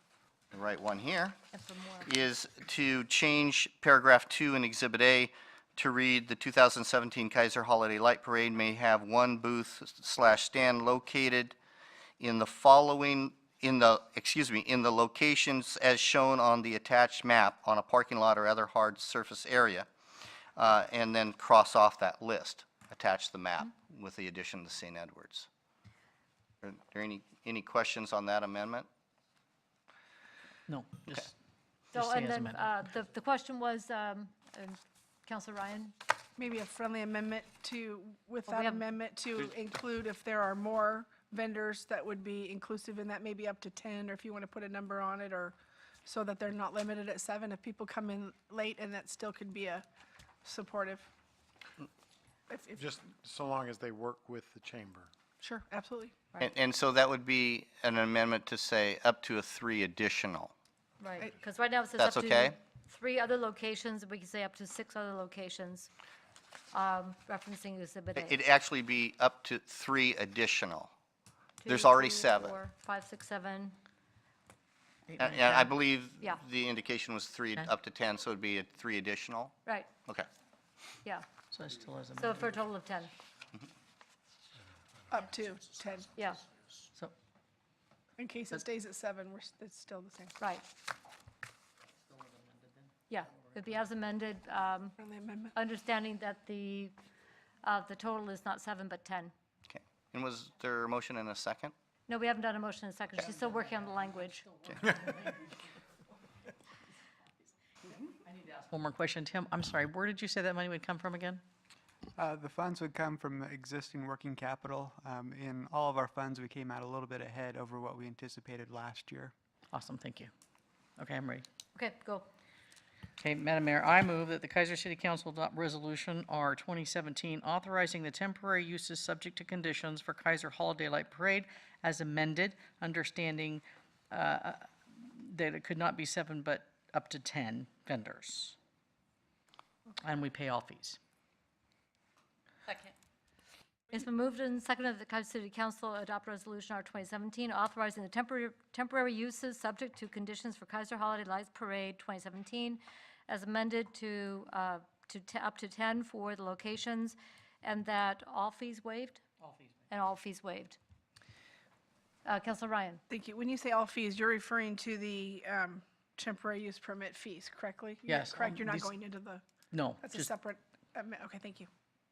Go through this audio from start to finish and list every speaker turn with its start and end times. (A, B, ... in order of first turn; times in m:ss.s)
0:00.5-0:01.4 A
0:01.5-0:02.1 B
0:02.0-0:11.5 A
0:12.2-0:19.9 A
0:20.6-0:25.5 A
0:26.6-0:28.9 A
0:30.7-0:31.3 C
0:31.9-0:35.9 B
0:31.9-0:32.7 C
0:36.4-0:49.8 D
0:38.5-0:38.8 B
0:50.4-0:51.1 D
0:52.5-0:52.9 D
0:52.8-0:55.1 E
0:55.4-0:56.2 D
0:56.4-1:00.5 A
1:01.0-1:05.9 B
1:02.0-1:02.5 A
1:06.7-1:08.4 B
1:08.2-1:10.9 A
1:11.6-1:13.8 B
1:11.7-1:12.5 A
1:15.1-1:15.7 C
1:15.2-1:19.5 A
1:19.6-1:19.9 B
1:21.5-1:22.5 C
1:22.2-1:23.1 B
1:25.1-1:26.1 D
1:26.1-1:26.4 B
1:28.2-1:30.4 D
1:30.4-1:30.6 B
1:33.1-1:35.0 B
1:35.0-1:35.5 D
1:35.5-1:36.9 B
1:37.6-1:39.3 B
1:39.7-1:41.7 A
1:42.1-1:44.4 B
1:43.5-1:45.5 C
1:48.2-1:51.4 C
1:52.2-1:59.3 F
1:59.7-2:00.3 C
2:01.0-2:01.4 C
2:01.7-2:02.3 B
2:03.2-2:18.6 C
2:20.0-2:21.0 C
2:23.9-2:39.2 B
2:39.4-2:39.7 C
2:39.9-2:40.8 B
2:42.2-2:43.0 B
2:43.1-2:49.4 D
2:48.1-2:48.9 C
2:49.7-2:50.3 C
2:50.0-2:51.7 D